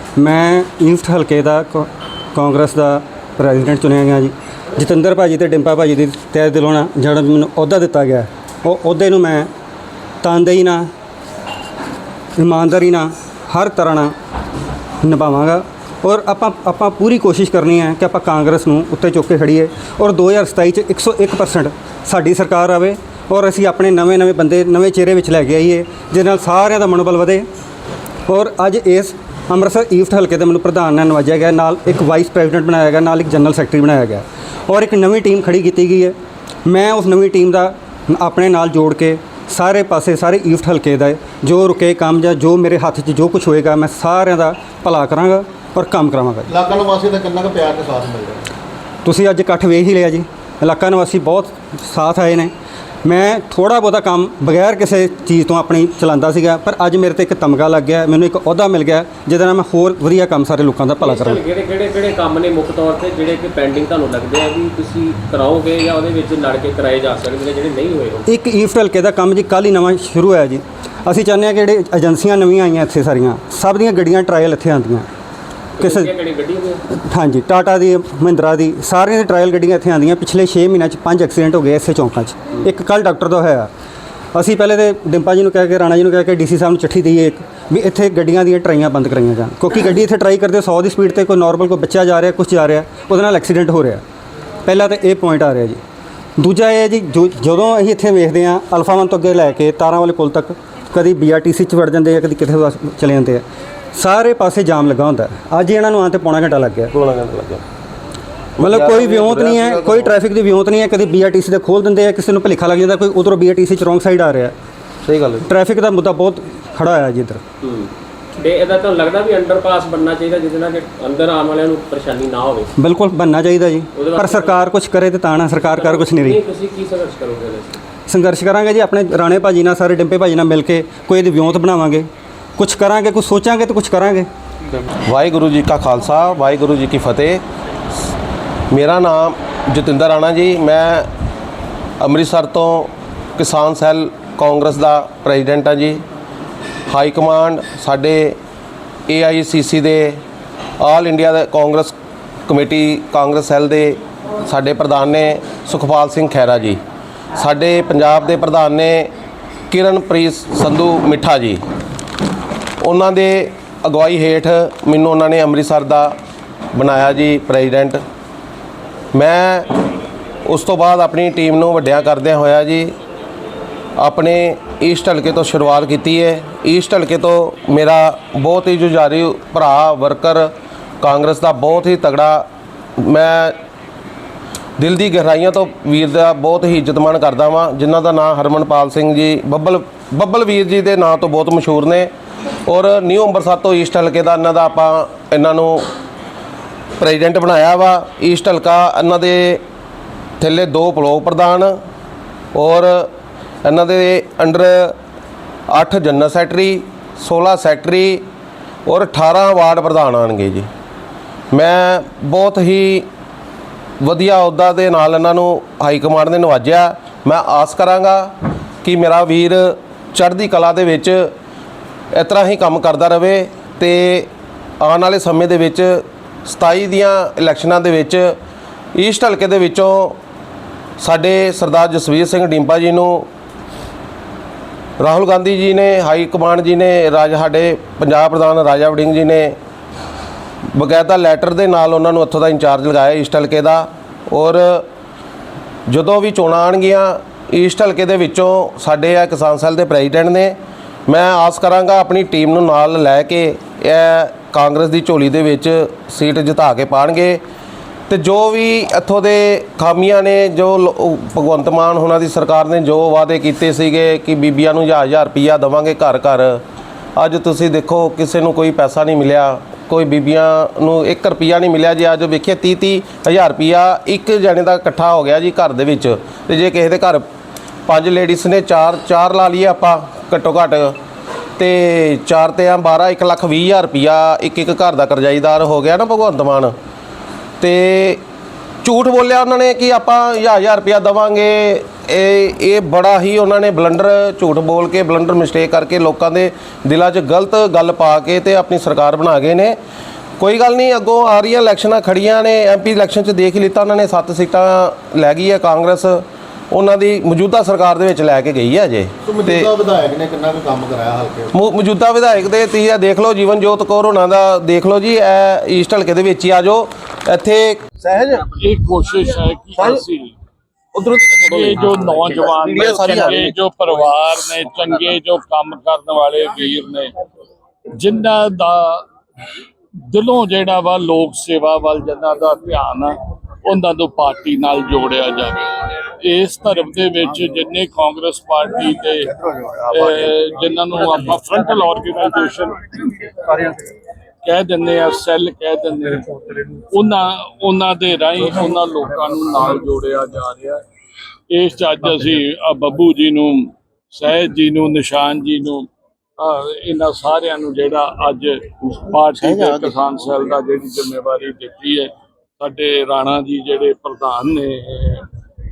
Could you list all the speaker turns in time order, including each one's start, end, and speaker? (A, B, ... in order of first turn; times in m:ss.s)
0:00.2-0:09.5 A
0:10.2-0:10.9 A
0:12.4-0:14.1 A
0:15.0-0:27.5 A
0:28.3-0:36.2 A
0:36.7-0:46.5 A
0:46.5-0:48.4 B
0:49.0-0:52.5 A
0:53.0-1:01.4 A
1:01.0-1:08.3 C
1:08.3-1:15.1 A
1:15.8-1:16.8 C
1:15.8-1:16.1 A
1:17.0-1:23.7 A
1:24.3-1:34.0 A
1:34.6-1:35.8 A
1:36.4-1:46.9 A
1:46.9-1:47.6 D
1:48.6-1:50.1 D
1:48.6-1:54.5 A
1:55.0-1:55.5 D
1:55.4-1:57.4 A
1:57.6-2:02.7 C
2:02.8-2:06.4 A
2:03.9-2:04.7 C
2:05.6-2:07.8 C
2:08.1-2:14.3 A
2:15.1-2:17.4 D
2:18.7-2:21.1 D
2:22.0-2:26.0 D
2:26.9-2:28.4 D
2:29.1-2:30.2 D
2:30.8-2:31.9 D
2:32.5-2:36.8 D
2:37.4-2:39.1 D
2:39.7-2:41.6 D
2:42.8-2:46.2 D
2:46.8-2:48.0 D
2:49.2-2:49.7 D
2:50.5-2:53.0 D
2:54.0-3:00.5 D
3:01.0-3:02.5 D
3:03.0-3:03.6 D
3:04.8-3:12.1 D
3:12.7-3:15.8 D
3:17.0-3:19.6 D
3:20.4-3:21.8 D
3:22.6-3:23.1 D
3:23.6-3:25.0 D
3:25.7-3:28.2 D
3:28.9-3:30.7 D
3:31.5-3:33.1 D
3:34.0-3:41.3 D
3:42.1-3:44.3 D
3:44.8-3:48.4 D
3:49.0-3:50.2 D
3:51.0-3:53.3 D
3:55.0-3:59.6 D
4:00.7-4:04.9 D
4:05.9-4:10.6 D
4:11.1-4:17.4 D
4:18.1-4:26.6 D
4:27.2-4:37.2 D
4:37.9-4:41.0 D
4:41.6-4:46.7 D
4:47.6-4:48.2 D
4:48.8-4:59.8 D
5:00.4-5:09.7 D
5:09.3-5:11.5 B
5:11.5-5:18.4 D
5:18.6-5:20.4 E
5:21.0-5:23.5 D
5:21.4-5:27.2 E
5:27.9-5:29.1 E
5:30.0-5:39.4 E
5:39.4-5:40.2 B
5:39.9-5:43.1 E
5:44.4-5:50.8 E
5:51.5-6:05.3 E